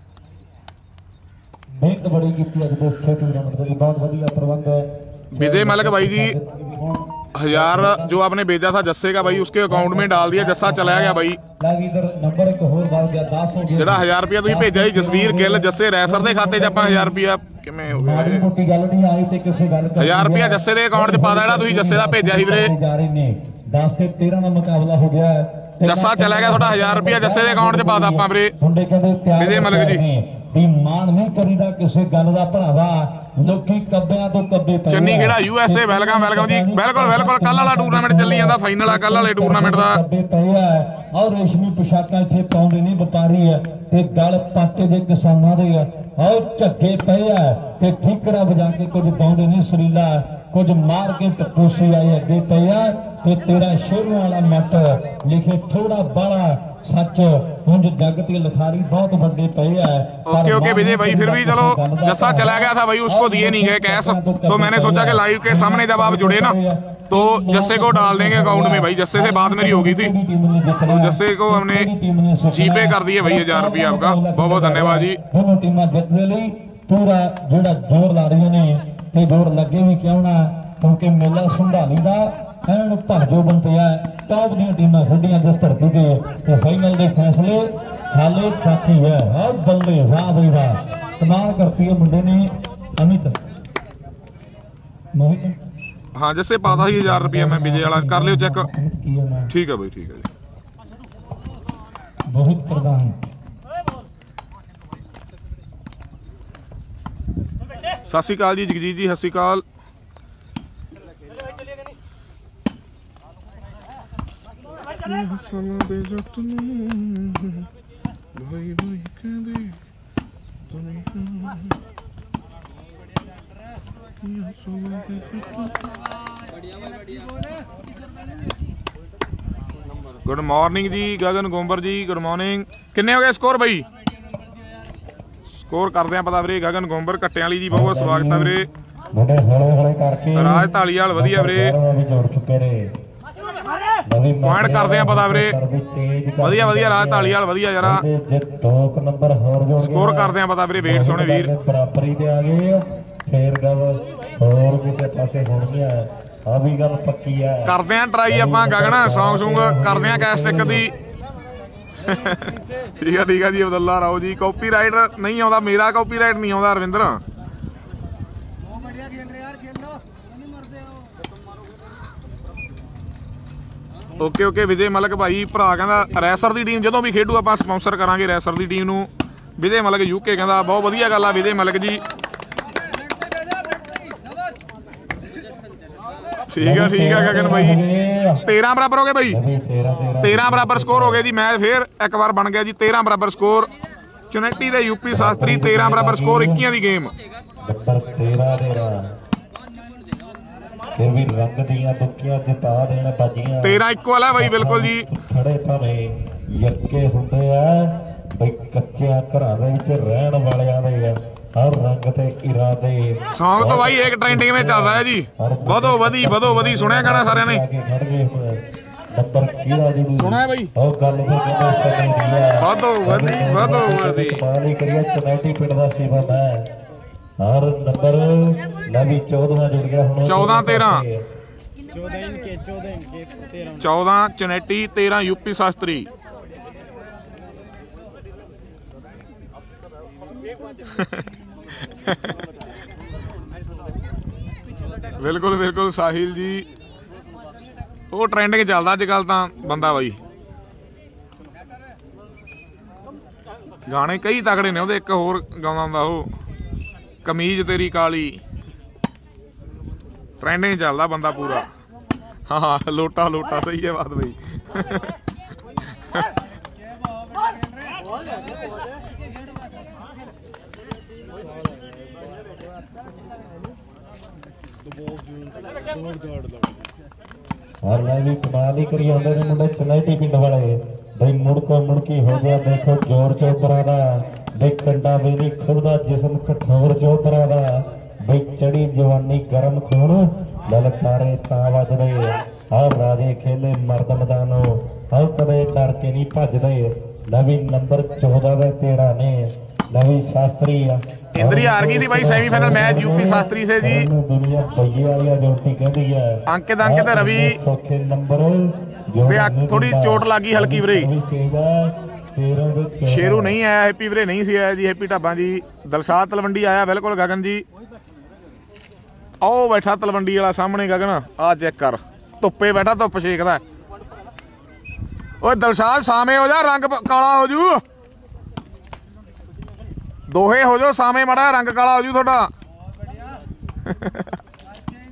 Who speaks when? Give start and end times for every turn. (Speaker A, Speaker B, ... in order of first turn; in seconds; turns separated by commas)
Speaker A: 1.7-8.2, Speaker B: 5.3-6.4, Speaker B: 7.3-11.4, Speaker A: 9.7-17.2, Speaker B: 13.8-18.5, Speaker A: 17.9-93.4, Speaker B: 20.0-22.7, Speaker B: 25.9-28.5, Speaker B: 29.4-30.0, Speaker B: 34.9-40.0, Speaker B: 60.3-66.6, Speaker B: 67.1-70.1, Speaker B: 70.9-71.9, Speaker B: 72.5-75.2, Speaker A: 95.2-95.6, Speaker B: 96.2-98.7, Speaker A: 96.6-99.5, Speaker B: 99.5-100.3, Speaker A: 102.3-103.2, Speaker B: 108.1-109.6, Speaker B: 115.0-117.7, Speaker B: 118.3-119.8, Speaker B: 120.7-121.7, Speaker B: 124.2-125.8, Speaker B: 130.2-133.9, Speaker B: 135.6-138.7, Speaker A: 137.7-138.6, Speaker A: 139.1-142.9, Speaker B: 140.4-141.8, Speaker A: 144.1-157.7, Speaker B: 144.4-145.6, Speaker B: 146.4-148.0, Speaker B: 149.8-151.5, Speaker B: 157.7-160.9, Speaker A: 158.3-160.9, Speaker B: 162.0-167.2, Speaker B: 174.2-182.0, Speaker B: 186.5-187.8, Speaker A: 186.6-188.4, Speaker B: 188.4-189.4, Speaker A: 189.3-191.3, Speaker B: 190.2-193.7, Speaker B: 194.3-197.1, Speaker A: 195.1-196.7, Speaker A: 197.6-199.1, Speaker A: 200.9-203.8, Speaker B: 203.6-205.1, Speaker A: 204.3-226.7, Speaker B: 213.3-217.6, Speaker B: 220.2-220.7, Speaker B: 222.6-224.4, Speaker A: 227.4-231.3, Speaker B: 230.2-231.1, Speaker C: 231.9-233.8, Speaker B: 233.8-236.1, Speaker B: 240.9-241.3, Speaker B: 241.9-242.4, Speaker B: 245.2-246.7, Speaker B: 248.1-250.2, Speaker B: 253.9-256.3, Speaker B: 257.2-258.4, Speaker B: 260.4-261.7, Speaker B: 262.5-265.1, Speaker B: 266.0-266.3, Speaker C: 271.6-271.9, Speaker C: 274.9-276.9, Speaker A: 277.8-313.6, Speaker B: 301.3-304.1, Speaker B: 306.5-307.6, Speaker B: 309.3-311.1, Speaker B: 313.1-317.6, Speaker B: 319.4-323.6, Speaker B: 325.4-327.8, Speaker B: 330.3-332.5, Speaker B: 333.9-334.3